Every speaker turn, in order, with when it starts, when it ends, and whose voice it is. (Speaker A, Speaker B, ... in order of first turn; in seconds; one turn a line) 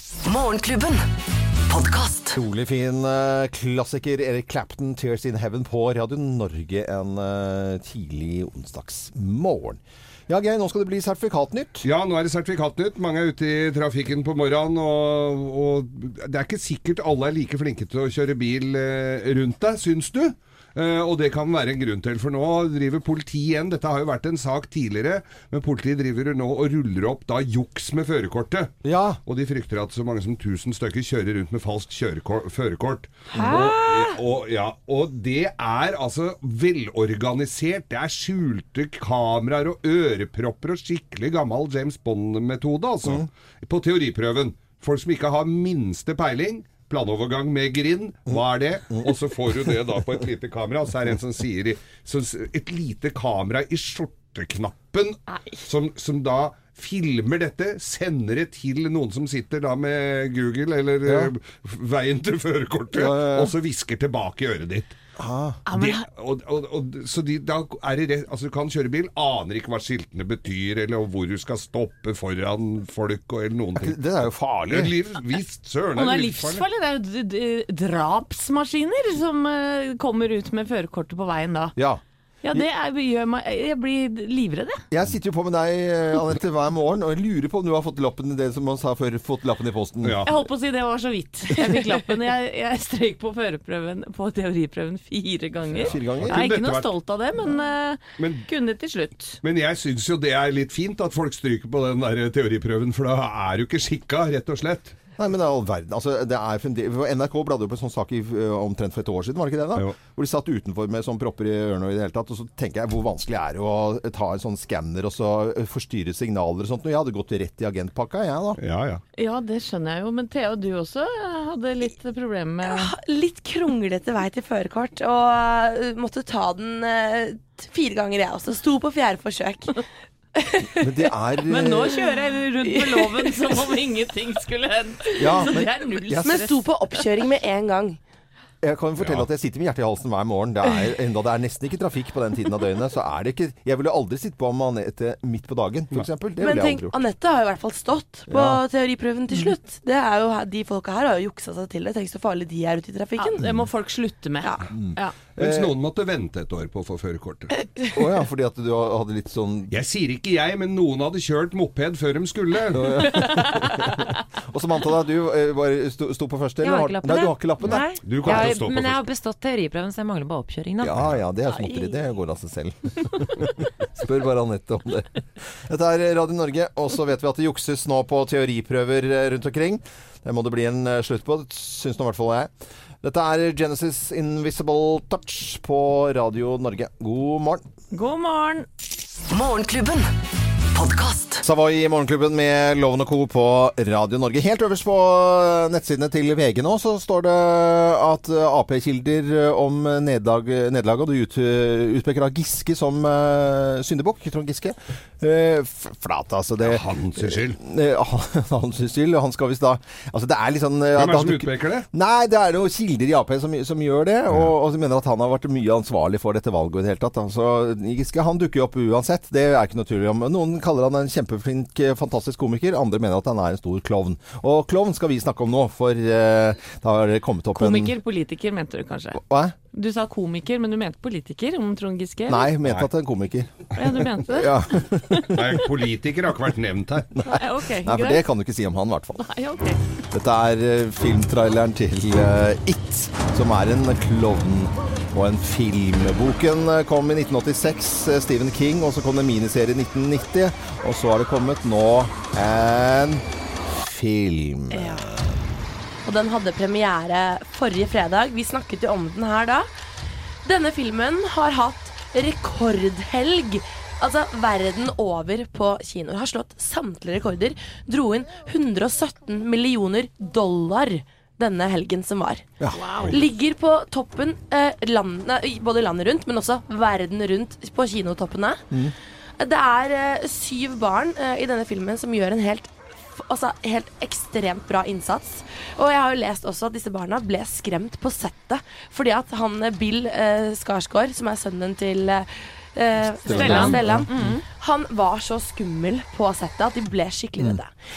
Speaker A: 0.2-1.1
Speaker A: 1.7-2.4
Speaker B: 2.3-11.9
Speaker C: 11.8-28.7
Speaker B: 28.8-29.2
Speaker C: 29.2-64.9
Speaker B: 33.3-33.8
Speaker D: 33.3-34.1
Speaker B: 61.0-61.3
Speaker B: 62.9-63.5
Speaker B: 65.2-65.6
Speaker E: 65.7-66.0
Speaker C: 65.7-74.0
Speaker B: 73.8-75.0
Speaker C: 74.7-76.7
Speaker E: 75.9-81.8
Speaker B: 81.8-82.0
Speaker E: 82.4-84.8
Speaker B: 84.9-90.2
Speaker C: 90.0-90.3
Speaker E: 90.2-99.4
Speaker C: 95.7-96.9
Speaker B: 95.8-96.4
Speaker C: 98.2-98.5
Speaker C: 99.4-105.0
Speaker B: 105.2-118.6
Speaker C: 118.6-119.0
Speaker E: 119.2-122.9
Speaker F: 122.6-129.8
Speaker F: 130.4-130.6
Speaker B: 130.8-132.0
Speaker E: 131.4-136.7
Speaker F: 132.6-133.6
Speaker B: 135.2-136.4
Speaker F: 136.2-138.0
Speaker B: 138.6-146.9
Speaker C: 139.0-139.3
Speaker F: 146.4-153.5
Speaker B: 148.3-148.6
Speaker E: 153.2-155.2
Speaker B: 154.7-155.7
Speaker C: 155.3-157.5
Speaker B: 157.9-159.7
Speaker C: 159.7-163.3
Speaker B: 162.7-168.6
Speaker E: 163.2-163.9
Speaker D: 166.6-171.1
Speaker C: 168.0-169.0
Speaker B: 170.8-182.5
Speaker B: 183.0-187.7
Speaker E: 187.9-188.7
Speaker A: 189.3-190.1
Speaker A: 190.7-191.4
Speaker B: 191.4-228.0
Speaker C: 206.6-207.6
Speaker C: 210.9-211.8
Speaker E: 227.5-229.2
Speaker B: 229.1-229.5
Speaker E: 229.7-232.5
Speaker B: 232.3-235.6
Speaker C: 232.6-232.9
Speaker E: 233.7-234.6
Speaker C: 235.3-237.1
Speaker B: 237.1-239.3
Speaker E: 237.2-238.2
Speaker E: 239.2-239.8
Speaker B: 240.1-255.3
Speaker F: 256.0-259.7
Speaker F: 260.4-272.5
Speaker E: 272.7-273.3
Speaker F: 273.1-278.6
Speaker F: 279.4-297.7
Speaker B: 293.2-294.4
Speaker E: 293.3-294.4